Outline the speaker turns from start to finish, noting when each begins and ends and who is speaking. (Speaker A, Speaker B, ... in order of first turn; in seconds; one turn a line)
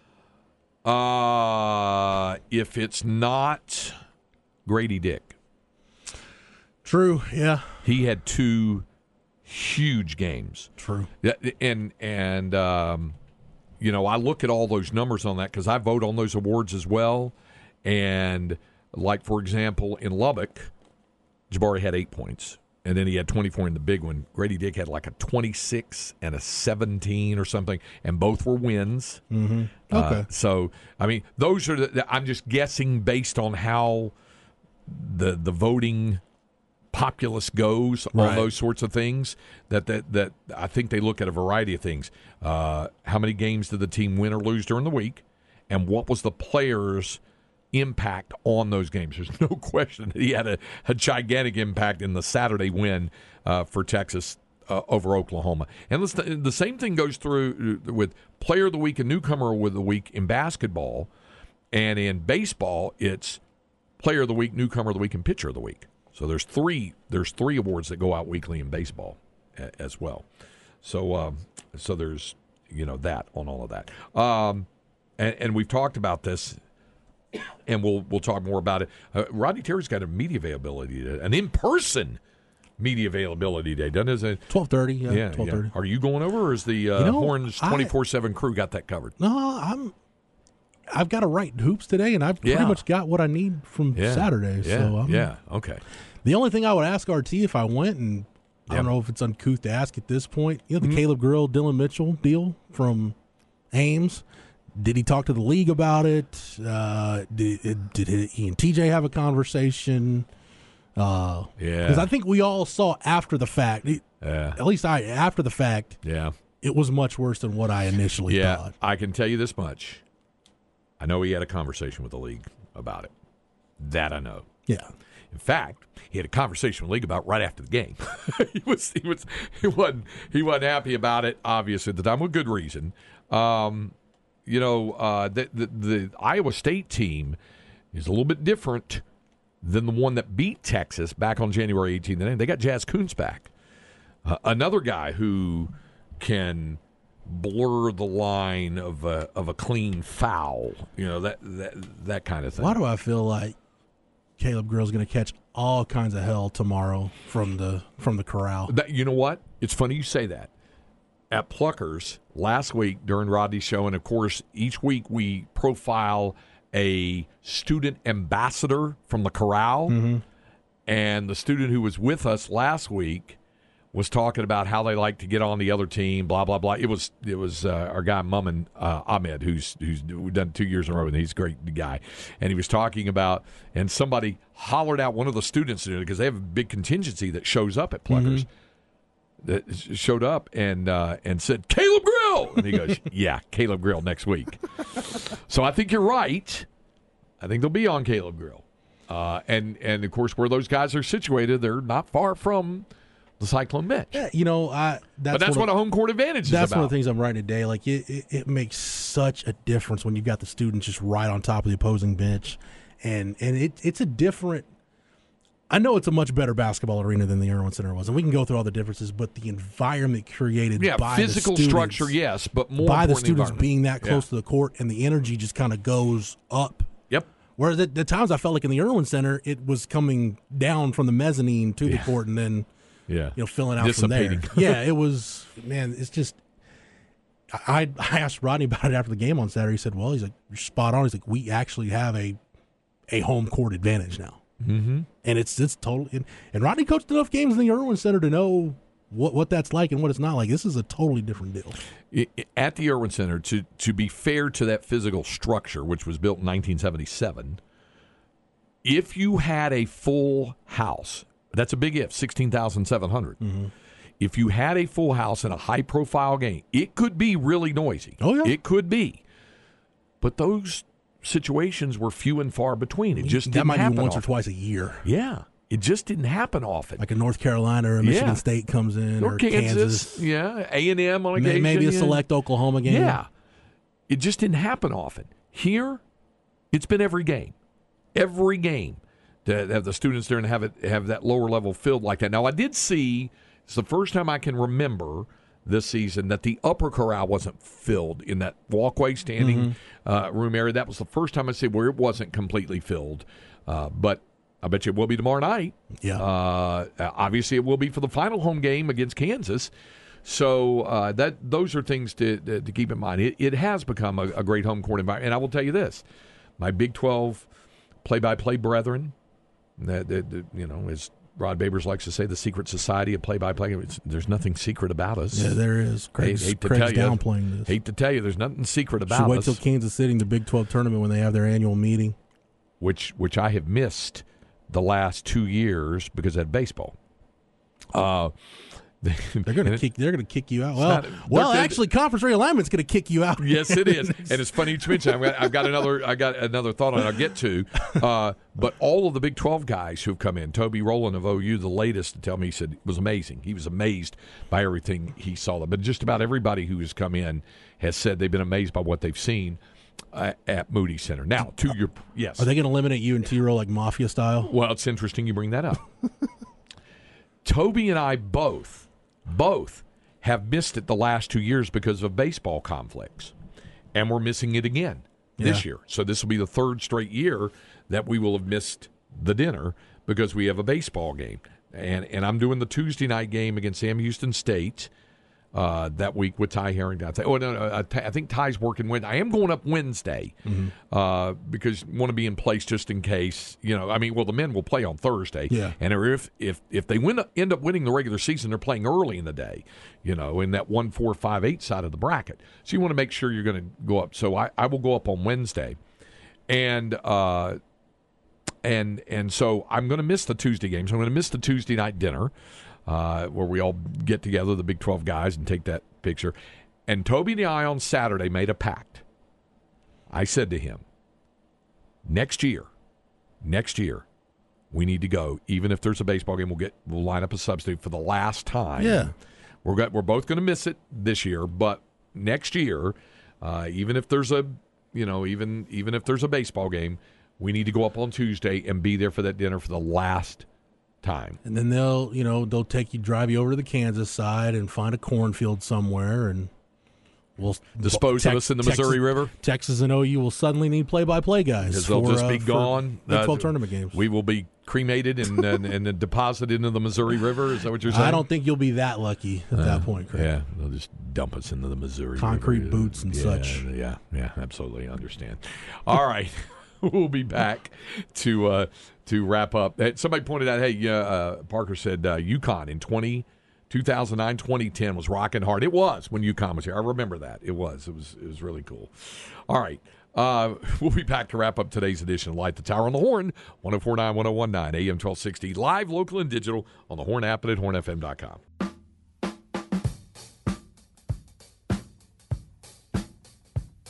Speaker A: 0.8-3.9
Speaker A: 4.7-5.3
Speaker B: 6.8-7.8
Speaker A: 7.8-8.8
Speaker A: 9.4-10.7
Speaker B: 10.8-11.1
Speaker A: 11.2-13.2
Speaker A: 13.8-20.7
Speaker A: 21.5-29.2
Speaker B: 29.3-30.3
Speaker A: 29.9-34.1
Speaker A: 34.9-36.2
Speaker A: 36.9-47.2
Speaker B: 38.1-38.5
Speaker A: 47.7-61.1
Speaker A: 61.7-63.4
Speaker A: 64.0-70.2
Speaker A: 70.8-76.6
Speaker A: 77.7-82.2
Speaker A: 82.8-84.5
Speaker B: 84.5-85.7
Speaker A: 85.0-89.2
Speaker B: 87.0-87.9
Speaker B: 89.2-89.9
Speaker B: 90.9-95.3
Speaker A: 92.4-92.8
Speaker A: 93.9-95.8
Speaker B: 96.2-103.1
Speaker B: 103.7-104.2
Speaker B: 104.8-110.3
Speaker B: 111.0-116.0
Speaker A: 111.6-112.1
Speaker A: 114.2-114.6
Speaker A: 116.0-116.3
Speaker B: 116.6-118.7
Speaker A: 118.3-120.0
Speaker A: 121.0-123.1
Speaker A: 123.8-124.5
Speaker A: 125.3-133.9
Speaker A: 134.4-137.4
Speaker A: 137.9-139.0
Speaker A: 139.6-143.5
Speaker A: 144.2-152.8
Speaker B: 152.6-153.6
Speaker B: 154.4-158.7
Speaker A: 158.7-160.5
Speaker A: 161.3-170.0
Speaker B: 169.9-170.2
Speaker A: 170.9-173.4
Speaker A: 173.9-188.5
Speaker B: 188.1-188.4
Speaker A: 189.4-196.7
Speaker A: 197.4-202.9
Speaker A: 203.4-204.2
Speaker B: 204.1-205.7
Speaker A: 205.3-206.9
Speaker B: 206.4-214.7
Speaker B: 215.7-222.1
Speaker A: 220.8-224.2
Speaker B: 222.8-226.9
Speaker B: 227.6-232.7
Speaker A: 231.8-232.1
Speaker A: 233.1-234.8
Speaker B: 233.3-236.4
Speaker B: 237.5-242.4
Speaker B: 243.1-244.4
Speaker A: 244.6-245.1
Speaker B: 245.2-251.8
Speaker A: 252.1-257.6
Speaker A: 258.8-263.4
Speaker B: 263.4-263.7
Speaker A: 264.2-269.2
Speaker B: 268.2-268.5
Speaker A: 270.2-274.2
Speaker B: 273.2-275.0
Speaker A: 275.0-277.0
Speaker B: 277.0-280.2
Speaker A: 278.0-278.4
Speaker A: 279.2-282.2
Speaker B: 281.3-283.2
Speaker A: 282.8-283.3
Speaker A: 284.1-286.0
Speaker A: 286.7-287.5
Speaker A: 288.1-309.7
Speaker B: 299.4-299.7
Speaker A: 310.2-316.0
Speaker A: 316.6-317.5
Speaker A: 318.0-319.1
Speaker A: 319.8-325.6
Speaker B: 325.3-327.7
Speaker A: 326.2-329.6
Speaker B: 329.1-332.1
Speaker A: 332.8-336.9
Speaker A: 337.9-338.4
Speaker A: 339.0-339.8
Speaker B: 339.4-345.6
Speaker A: 340.8-341.8
Speaker A: 343.4-359.6
Speaker A: 360.1-362.5
Speaker B: 362.4-364.5
Speaker A: 364.4-365.8
Speaker A: 367.4-373.3
Speaker A: 373.9-384.9
Speaker B: 375.4-375.6
Speaker A: 385.5-405.8
Speaker B: 390.4-390.7
Speaker B: 395.5-395.7
Speaker A: 406.5-407.6
Speaker A: 408.6-412.3
Speaker A: 412.9-416.3
Speaker A: 416.9-419.0
Speaker A: 420.1-420.8
Speaker A: 422.0-422.7
Speaker A: 423.4-424.1
Speaker A: 424.7-429.1
Speaker B: 428.8-429.1
Speaker A: 429.6-440.4
Speaker A: 441.0-441.4
Speaker B: 441.4-446.5
Speaker B: 447.4-454.0
Speaker A: 447.8-449.3
Speaker A: 451.6-458.2
Speaker B: 457.9-460.3
Speaker A: 459.5-488.4
Speaker B: 462.2-463.6